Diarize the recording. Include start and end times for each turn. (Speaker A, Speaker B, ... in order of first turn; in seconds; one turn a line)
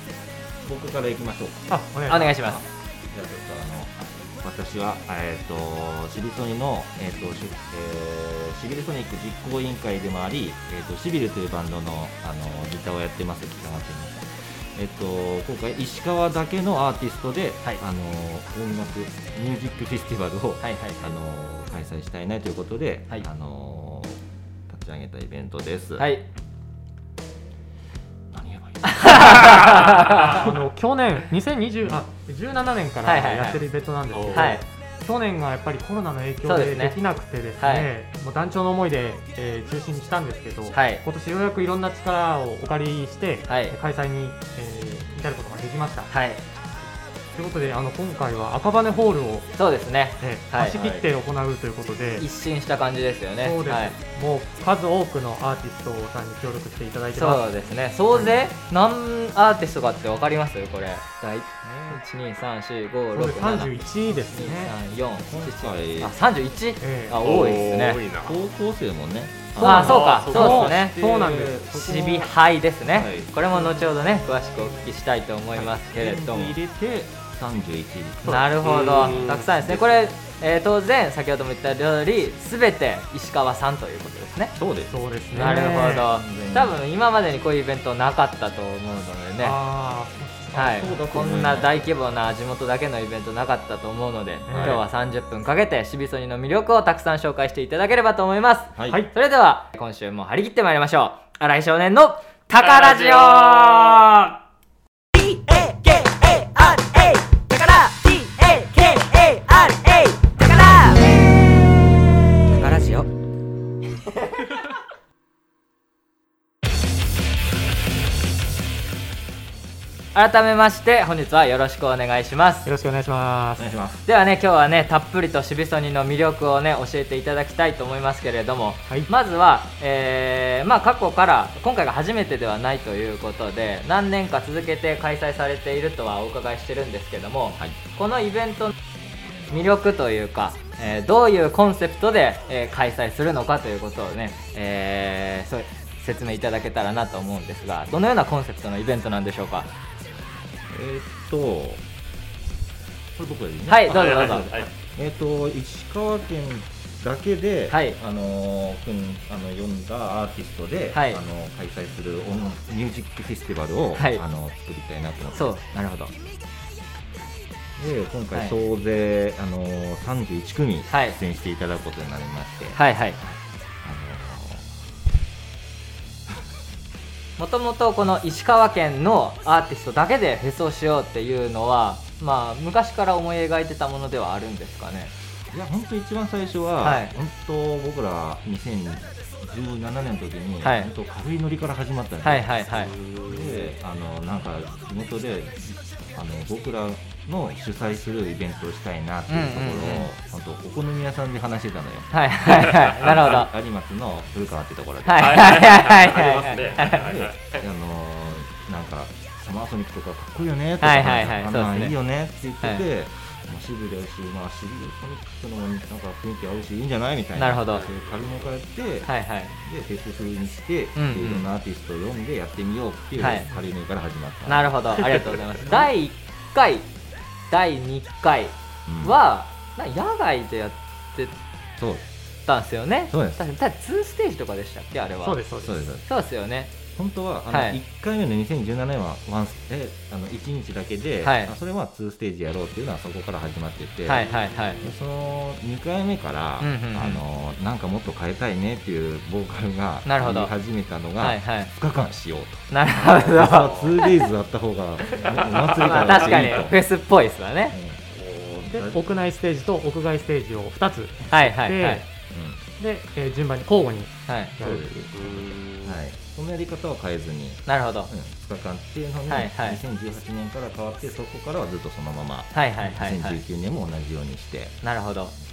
Speaker A: 0.6-26.1
Speaker B: 1.7-2.4
Speaker C: 2.1-2.6
Speaker C: 20.6-21.1
Speaker C: 26.0-26.2
Speaker A: 28.3-30.4
Speaker C: 28.8-30.4
Speaker B: 30.2-46.1
Speaker C: 33.0-33.6
Speaker D: 34.1-34.5
Speaker C: 34.3-34.6
Speaker C: 36.4-37.0
Speaker C: 37.6-37.9
Speaker C: 40.7-41.0
Speaker C: 43.5-43.8
Speaker C: 46.1-46.4
Speaker B: 47.3-49.5
Speaker C: 49.6-51.0
Speaker B: 50.2-52.2
Speaker A: 50.8-51.0
Speaker C: 52.2-53.9
Speaker B: 53.4-57.5
Speaker C: 57.1-68.0
Speaker A: 58.1-58.4
Speaker A: 61.6-62.0
Speaker B: 63.1-64.8
Speaker A: 65.3-66.1
Speaker B: 66.8-67.2
Speaker D: 67.2-68.4
Speaker A: 68.2-72.3
Speaker B: 69.6-71.7
Speaker C: 69.6-70.9
Speaker D: 69.8-70.5
Speaker C: 71.7-76.5
Speaker A: 72.8-73.3
Speaker B: 73.5-73.9
Speaker A: 75.5-80.0
Speaker C: 78.3-84.5
Speaker D: 78.6-79.5
Speaker A: 84.5-86.8
Speaker B: 84.9-86.1
Speaker C: 85.3-89.6
Speaker B: 89.4-90.9
Speaker A: 90.5-91.9
Speaker C: 90.5-104.4
Speaker B: 94.5-94.8
Speaker A: 94.5-94.8
Speaker A: 98.7-99.0
Speaker D: 102.6-104.1
Speaker C: 105.6-111.0
Speaker C: 112.6-113.0
Speaker C: 120.1-122.7
Speaker B: 122.6-123.7
Speaker A: 123.5-124.0
Speaker C: 124.0-138.7
Speaker C: 139.5-149.7
Speaker A: 150.7-151.8
Speaker A: 153.2-166.1
Speaker C: 153.7-154.5
Speaker D: 153.9-154.7
Speaker C: 157.7-158.0
Speaker C: 160.9-161.2
Speaker C: 164.0-164.2
Speaker C: 165.3-166.1
Speaker A: 167.8-174.7
Speaker C: 170.9-171.2
Speaker C: 172.8-173.2
Speaker C: 177.4-185.1
Speaker A: 185.5-205.7
Speaker C: 186.8-187.1
Speaker C: 190.6-190.9
Speaker C: 192.2-192.9
Speaker D: 192.8-193.7
Speaker C: 199.3-200.1
Speaker C: 202.1-203.5
Speaker D: 202.9-203.2
Speaker C: 205.0-207.0
Speaker D: 205.2-207.6
Speaker A: 206.8-225.9
Speaker C: 210.8-211.9
Speaker C: 217.3-217.8
Speaker D: 217.7-218.5
Speaker C: 219.0-219.6
Speaker C: 220.9-221.5
Speaker C: 223.2-223.5
Speaker C: 224.5-226.9
Speaker C: 227.5-231.4
Speaker A: 228.8-229.2
Speaker A: 231.8-232.1
Speaker C: 232.5-235.4
Speaker A: 233.1-233.4
Speaker B: 235.2-235.9
Speaker A: 235.6-236.0
Speaker C: 236.0-236.7
Speaker A: 236.9-244.3
Speaker C: 237.5-237.8
Speaker C: 241.2-241.5
Speaker C: 244.1-244.8
Speaker D: 244.1-244.9
Speaker A: 244.8-256.8
Speaker C: 246.6-247.2
Speaker C: 250.1-250.5
Speaker C: 251.2-251.7
Speaker C: 252.7-254.3
Speaker D: 255.1-256.6
Speaker C: 255.8-257.8
Speaker A: 257.7-259.0
Speaker B: 258.7-262.1
Speaker C: 261.3-262.0
Speaker A: 262.3-262.6
Speaker B: 262.8-264.9
Speaker C: 264.3-264.5
Speaker A: 264.6-274.8
Speaker D: 265.1-266.0
Speaker C: 267.7-268.1
Speaker C: 269.3-269.8
Speaker C: 272.5-273.4
Speaker C: 274.8-275.3